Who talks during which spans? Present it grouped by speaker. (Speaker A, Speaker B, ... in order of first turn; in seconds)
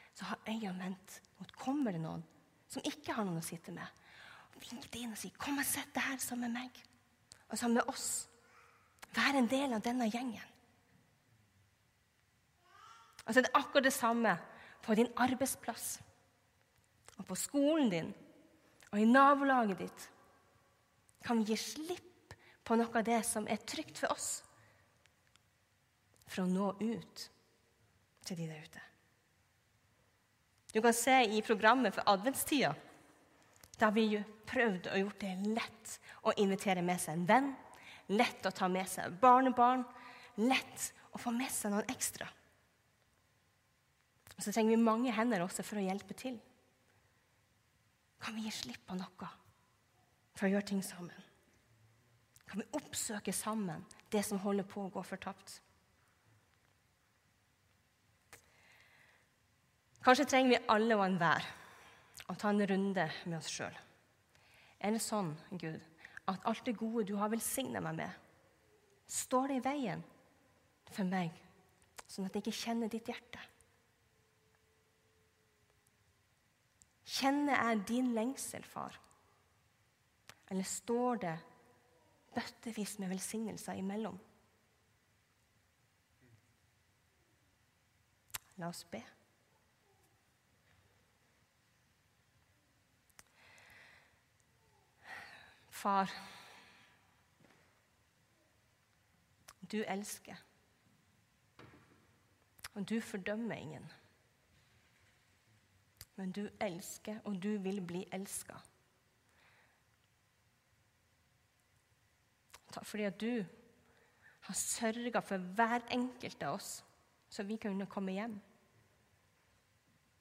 Speaker A: 0.1-3.9, 4.5-6.8, 7.5-8.3, 9.1-10.5, 13.2-16.0, 17.2-18.1, 18.9-20.1, 21.2-24.4, 26.2-27.3, 28.2-28.8, 30.7-32.8, 33.8-42.3, 44.4-46.4, 48.2-49.3, 50.3-51.2, 52.5-55.6, 60.0-61.5, 62.3-63.8, 64.8-68.2, 69.1-70.0, 70.8-71.4, 72.1-73.4, 77.0-79.0, 80.5-81.4, 82.3-84.2, 88.5-89.1, 95.7-96.2, 99.6-100.4, 102.7-103.9, 106.2-108.6, 112.7-113.5, 114.4-118.4